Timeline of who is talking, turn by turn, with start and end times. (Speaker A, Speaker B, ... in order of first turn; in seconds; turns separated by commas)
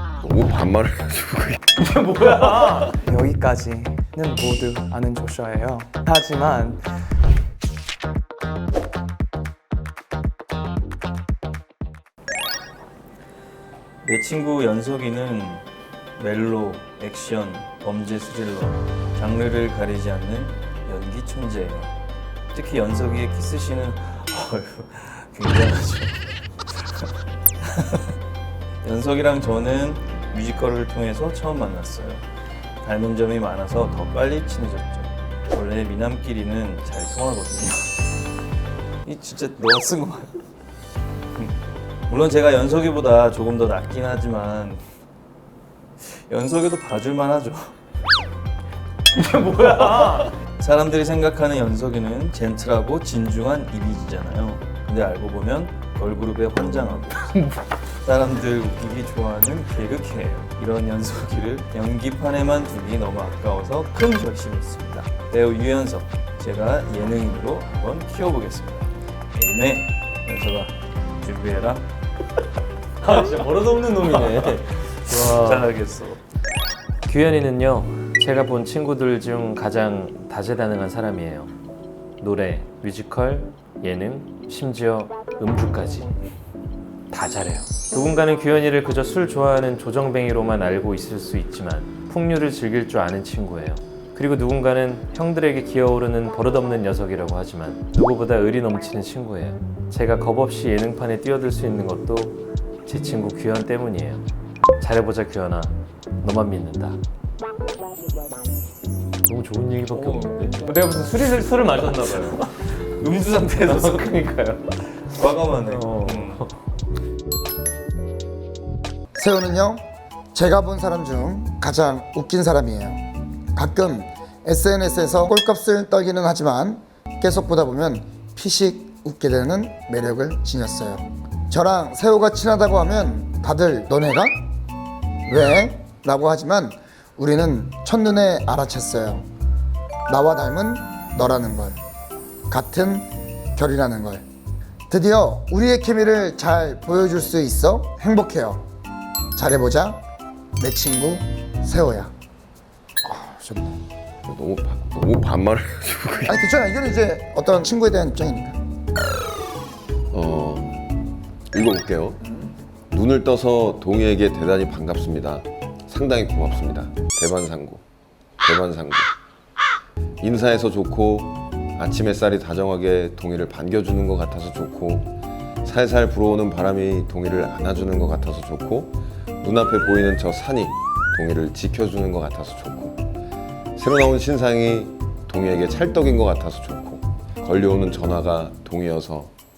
Speaker A: 0.2-1.6, Speaker B: 3.0-6.9, Speaker C: 14.0-15.7, Speaker C: 16.2-21.9, Speaker C: 22.5-27.1, Speaker C: 27.6-28.0, Speaker C: 28.8-32.2, Speaker C: 32.8-37.9, Speaker C: 39.0-40.3, Speaker C: 42.1-44.8, Speaker C: 46.0-47.8, Speaker C: 49.2-71.9, Speaker C: 73.0-76.2, Speaker D: 73.1-75.7, Speaker D: 77.1-81.5, Speaker D: 82.2-86.2, Speaker D: 87.1-104.2, Speaker D: 104.8-107.0, Speaker D: 109.3-112.5, Speaker C: 112.0-116.5, Speaker D: 113.6-114.6, Speaker D: 115.7-116.5, Speaker E: 119.2-123.0, Speaker E: 123.5-134.4, Speaker E: 135.3-139.3, Speaker E: 140.1-141.8, Speaker E: 142.5-144.2, Speaker E: 144.9-148.6, Speaker E: 149.4-150.0, Speaker E: 150.6-152.1, Speaker E: 153.0-153.8, Speaker A: 154.3-156.5, Speaker E: 156.3-158.6, Speaker A: 160.1-160.8, Speaker A: 161.5-162.2, Speaker A: 162.9-167.8, Speaker A: 168.4-169.1, Speaker A: 170.2-175.1, Speaker A: 175.6-183.0, Speaker A: 183.8-189.3